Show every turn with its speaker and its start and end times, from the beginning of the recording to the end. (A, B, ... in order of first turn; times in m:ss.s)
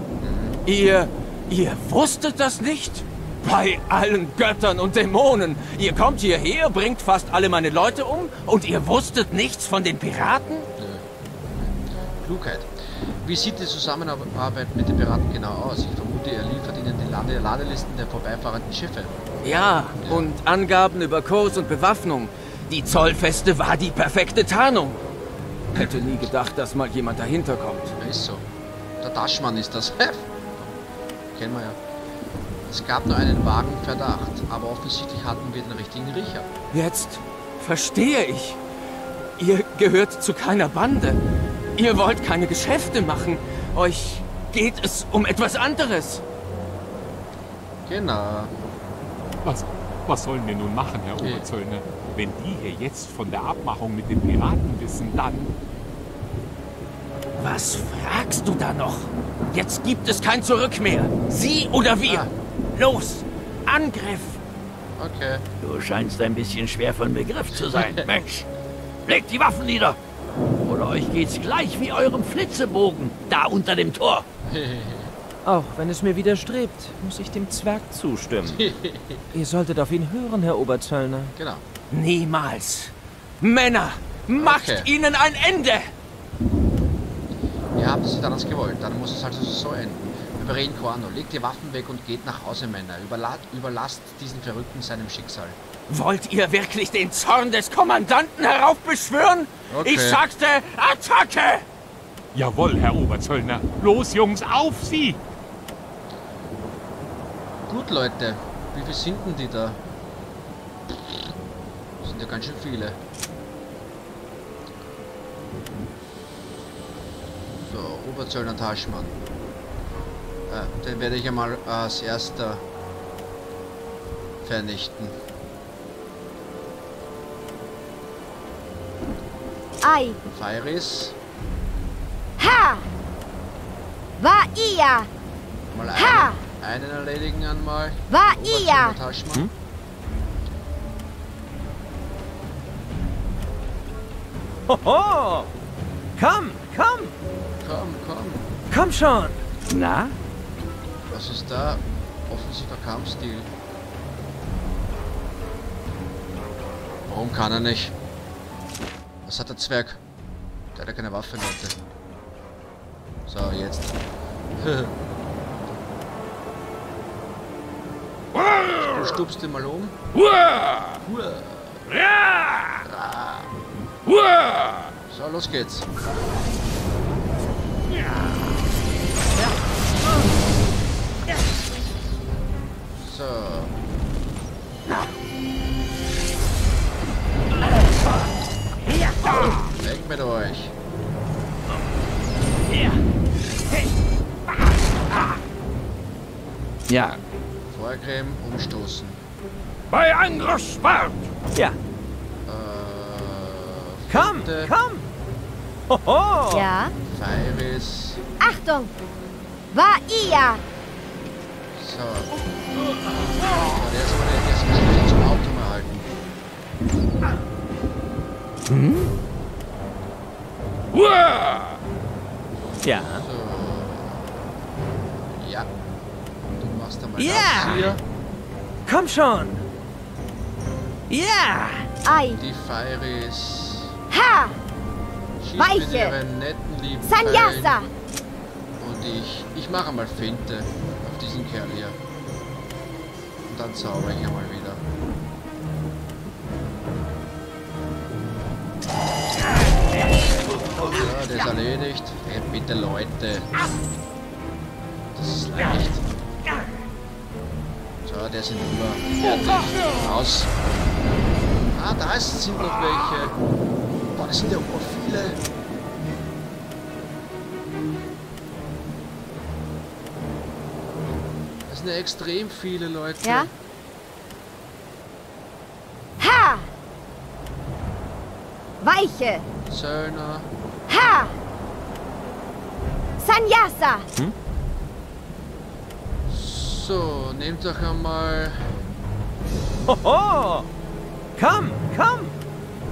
0:00.2-0:00.6 A
0:00.6-0:10.7 B
0:10.8-0:19.2 A
0:19.4-0:25.0 B
0:20.0-0:20.3 A
0:25.7-0:27.9 B
0:25.7-0:26.2 A
0:28.0-0:28.4 A
0:29.0-0:30.8 A
0:31.3-0:31.8 A
0:32.7-0:36.5 A
0:36.7-0:38.6 B
0:39.4-0:41.2 B
0:41.8-0:46.2 B
0:47.8-0:48.5 A
0:49.4-0:55.5 C
0:51.2-0:51.5 A
0:57.4-1:04.4 B
1:02.0-1:02.3 A
1:05.0-1:05.4 A
1:05.6-1:08.5 D
1:09.0-1:10.0 D
1:10.6-1:14.2 D
1:14.5-1:15.1 A
1:15.4-1:18.7 E
1:18.4-1:19.2 A
1:19.3-1:21.4 E
1:21.4-1:21.6 A
1:21.9-1:25.9 B
1:24.3-1:24.9 A
1:27.8-1:35.6 A
1:35.9-1:41.6 B
1:39.7-1:40.2 A
1:42.3-1:45.2 C
1:47.7-1:49.8 A
1:50.9-1:51.3 A
1:52.0-1:53.0 A
1:57.5-1:59.2 A
2:00.5-2:02.6 A
2:04.4-2:05.2 A
2:09.8-2:10.2 F
2:10.3-2:11.2 A
2:12.4-2:12.8 F
2:14.2-2:15.1 F
2:15.7-2:19.5 A
2:16.0-2:16.4 F
2:18.1-2:19.0 F
2:24.7-2:25.5 E
2:26.2-2:27.1 E
2:27.6-2:28.4 A
2:28.7-2:29.4 E
2:29.7-2:30.1 D
2:31.1-2:33.5 A
2:37.0-2:38.0 A
2:39.2-2:40.0 A
2:40.7-2:41.8 A
2:43.3-2:44.0 A
2:44.6-2:44.9 A
2:48.7-2:50.0 A
2:51.0-2:52.0 A
2:52.8-2:53.5 A
2:55.1-2:55.9 A
3:02.9-3:03.7 A
3:09.4-3:10.7 A
3:17.7-3:19.2 A
3:22.4-3:24.7 A
3:24.1-3:25.1 E
3:25.9-3:26.7 E
3:26.5-3:26.9 F
3:27.0-3:28.2 A
3:28.4-3:28.9 F
3:29.7-3:30.6 F
3:31.7-3:32.3 A
3:33.5-3:36.1 A
3:38.7-3:39.1 E
3:42.8-3:43.2 E
3:43.0-3:44.5 A
3:45.2-3:45.7 A
3:46.6-3:48.0 A
3:47.2-3:47.9 E
3:48.9-3:49.6 E
3:51.1-3:51.9 E
3:52.0-3:52.4 F
3:52.3-3:54.0 A
3:54.1-3:54.6 F
3:55.4-3:57.9 A
3:55.6-3:56.1 F
3:57.0-3:57.9 F
3:58.8-4:02.0 A
4:03.5-4:04.8 A
4:10.8-4:13.5 A
4:15.1-4:16.0 A
4:18.0-4:20.5 A
4:21.7-4:23.4 A
4:24.1-4:25.4 A
4:31.7-4:33.5 A
4:33.2-4:33.5 F
4:36.2-4:36.7 F
4:38.8-4:39.4 F
4:39.6-4:40.5 A
4:40.9-4:41.4 F
4:43.2-4:44.1 F
4:46.3-4:48.7 A
4:49.8-4:50.7 E
4:51.4-4:52.4 E